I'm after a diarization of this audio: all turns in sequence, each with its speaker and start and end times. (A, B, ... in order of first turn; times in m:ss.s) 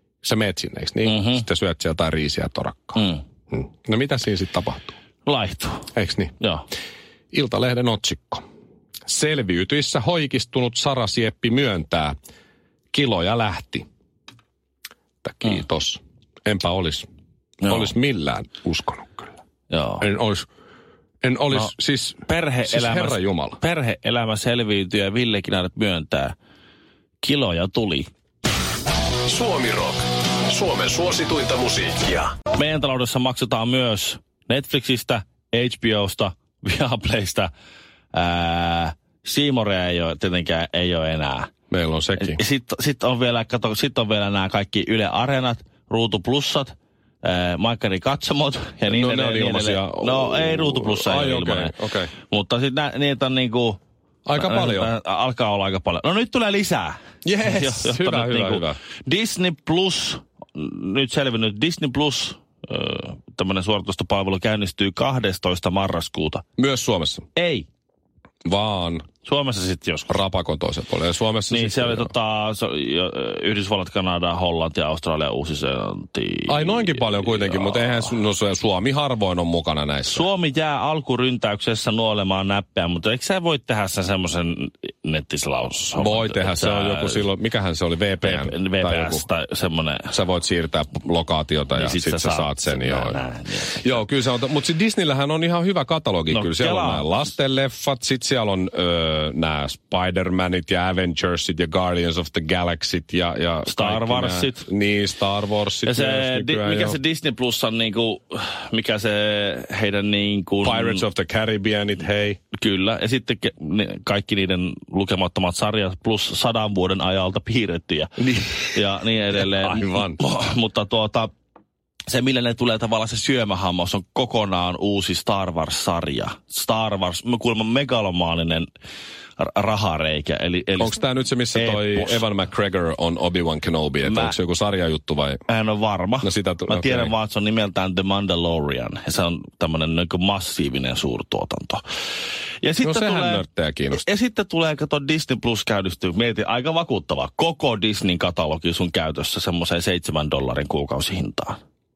0:00.2-0:05.0 A
0:01.1-0:01.4 B
0:05.2-0:05.9 B
0:05.9-0:06.3 A
0:07.3-0:08.4 A
0:09.1-0:12.1 A
0:12.9-0:13.9 A
0:15.2-0:17.1 A
0:17.6-0:17.9 B
0:17.6-0:19.4 A
0:19.7-0:20.0 B
0:20.0-0:20.5 A
0:21.2-0:23.6 A
0:22.3-0:26.4 B
0:27.2-0:28.1 B
0:29.2-0:32.4 C
0:32.5-0:37.5 B
0:38.1-0:41.5 B
0:41.7-0:42.4 A
0:42.2-0:51.8 B
0:48.9-0:52.1 A
0:52.3-0:53.8 B
0:54.2-0:54.9 A
0:54.4-1:06.4 B
0:57.2-0:58.8 A
1:06.6-1:07.2 A
1:07.4-1:07.7 B
1:08.4-1:09.1 A
1:09.2-1:10.2 B
1:10.1-1:12.1 A
1:11.5-1:18.1 B
1:16.5-1:20.2 A
1:20.1-1:27.2 B
1:26.0-1:29.2 A
1:28.2-1:30.1 B
1:30.1-1:33.2 A
1:31.8-1:33.9 B
1:33.8-1:47.0 A
1:36.3-1:37.1 B
1:43.7-1:44.7 B
1:45.8-1:51.0 B
1:50.6-1:52.4 A
1:52.5-2:01.3 B
1:58.2-1:58.7 A
1:59.4-2:00.2 A
2:02.1-2:08.7 B
2:09.4-2:11.0 B
2:10.8-2:15.4 A
2:11.5-2:12.2 B
2:14.0-2:14.4 B
2:15.5-2:21.8 B
2:16.2-2:17.1 A
2:22.6-2:31.6 B
2:22.8-2:24.0 A